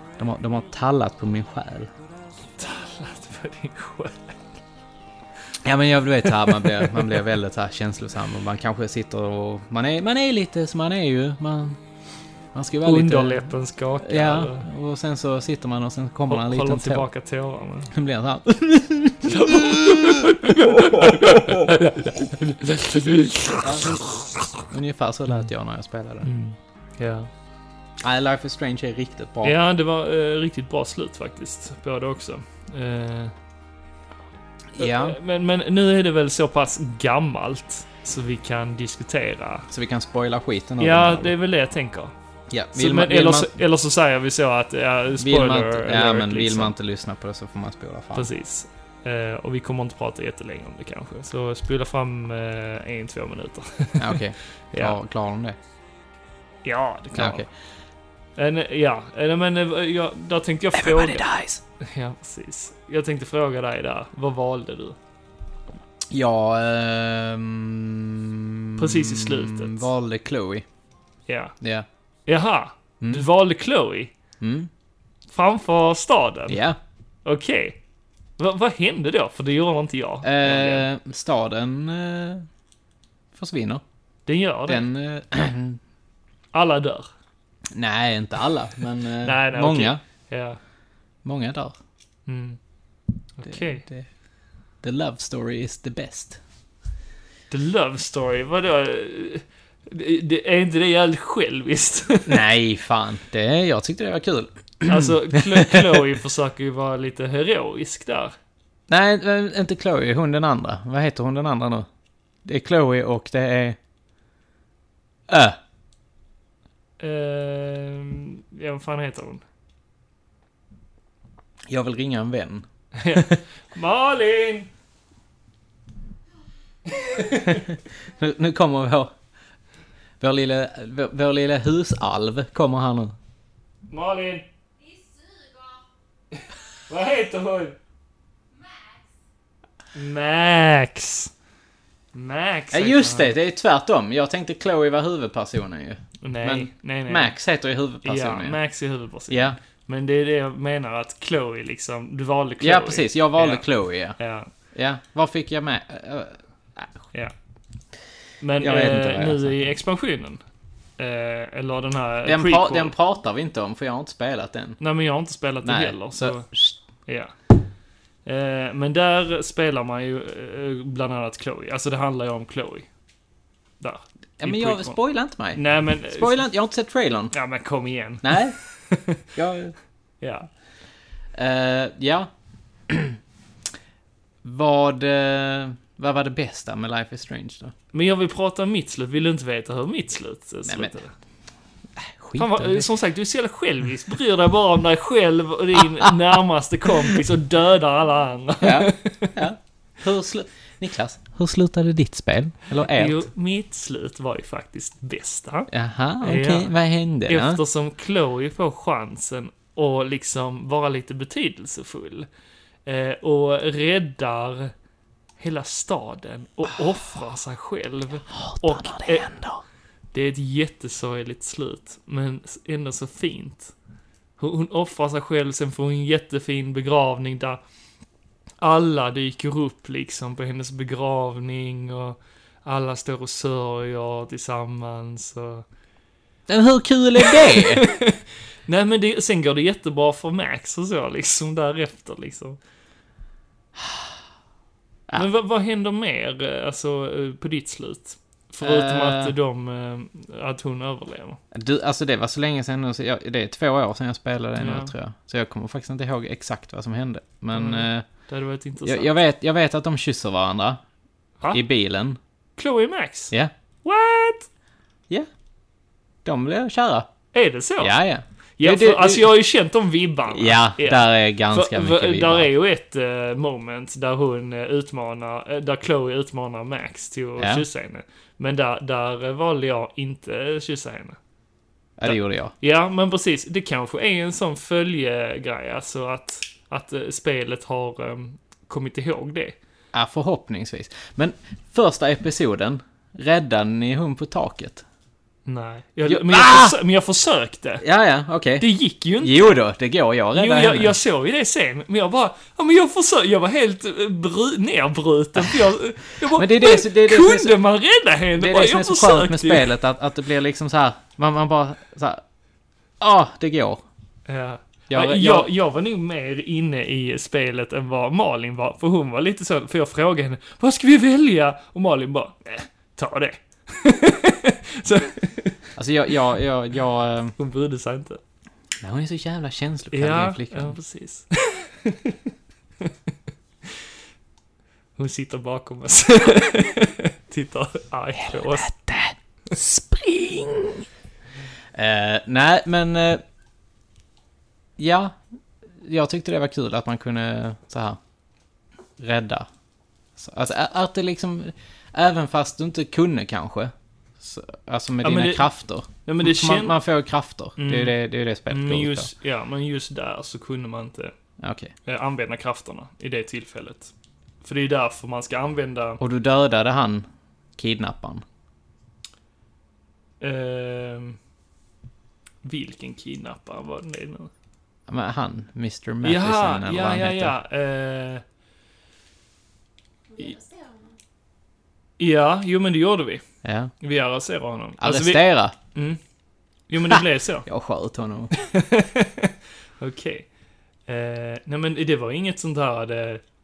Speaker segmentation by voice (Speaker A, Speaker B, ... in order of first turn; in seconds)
Speaker A: 0.2-1.9, 5.6-11.8, 12.5-17.1, 17.9-21.6, 23.6-24.0, 24.7-26.3, 28.0-29.6, 34.7-35.2, 39.7-41.3, 42.5-43.5, 45.2-48.3, 54.0-55.6, 57.1-57.5, 60.7-61.6, 66.1-70.6, 71.6-71.8, 73.0-73.3, 74.4-74.7, 76.5-76.8, 80.2-82.5, 83.3-83.8, 84.7-85.8, 87.7-90.0, 91.2-91.8, 93.4-94.0, 94.8-96.4, 102.2-106.0, 108.9-111.9, 112.4-113.8, 115.3-115.6, 121.7-122.6, 128.2-129.1, 130.2-133.1, 142.7-148.6, 149.3-149.6, 152.6-154.2, 154.7-156.9, 158.6-159.7, 162.2-164.8, 165.6-166.8, 174.4-177.3, 178.2-178.6, 179.3-179.7, 181.3-182.3, 182.9-183.2, 184.4-187.7, 190.7-191.0, 192.0-192.9, 198.6-203.3, 205.7-207.6, 218.3-219.6, 236.5-237.9, 248.6-249.3, 251.5-258.1, 258.8-260.8, 261.5-262.2, 266.2-267.1, 267.8-269.3, 270.3-272.5, 277.4-277.6, 282.0-282.5, 289.9-294.8, 296.0-296.8, 297.8-300.9, 305.4-305.7, 306.2-307.6, 308.4-312.2, 313.0-313.8, 314.9-315.5, 325.8-327.3, 328.8-330.8, 338.2-340.9, 341.7-343.2, 344.8-345.2, 345.8-348.0, 349.0-349.5, 350.2-359.1, 361.4-361.7, 366.0-368.2, 374.9-377.3, 383.4-383.7, 384.8-385.6, 386.9-388.3
Speaker B: 2.6-4.4, 6.4-7.2, 12.8-14.7, 16.3-17.9, 19.2-24.4, 26.2-27.3, 29.4-33.3, 34.8-39.7, 40.8-42.1, 42.7-46.7, 48.1-55.0, 56.6-57.4, 58.4-61.2, 61.8-65.0, 68.8-69.9, 71.3-71.5, 72.3-74.1, 75.3-76.6, 77.2-77.8, 78.4-80.8, 84.2-84.8, 86.5-87.1, 89.2-90.6, 92.3-92.6, 93.4-93.8, 97.5-102.4, 104.8-108.3, 117.0-119.4, 123.0-124.7, 126.9-127.6, 133.9-134.4, 136.9-137.8, 139.9-141.3, 142.1-143.3, 146.2-147.3, 148.0-154.5, 158.4-160.4, 161.0-162.9, 164.8-166.5, 167.1-167.3, 168.2-172.9, 173.8-175.0, 175.5-176.4, 177.3-179.2, 180.2-180.5, 187.9-191.1, 192.4-199.4, 202.8-205.7, 206.2-206.7, 207.2-212.3, 212.8-214.7, 215.4-219.3, 220.1-223.7, 224.4-227.6, 228.6-235.6, 237.2-242.6, 245.1-251.4, 254.6-254.9, 257.5-259.1, 262.6-263.3, 263.8-264.5, 267.3-268.0, 268.6-281.2, 282.0-289.6, 295.4-297.8, 298.6-299.6, 300.3-309.7, 314.3-325.6, 327.4-328.2, 329.9-332.1, 335.0-338.7, 355.0-355.5, 356.0-356.8, 357.6-361.1, 361.9-363.9, 364.4-366.0, 370.2-371.2, 372.4-374.3, 376.0-378.2, 382.0-383.2, 383.8-386.0, 386.7-387.4, 388.3-390.3, 390.9-393.2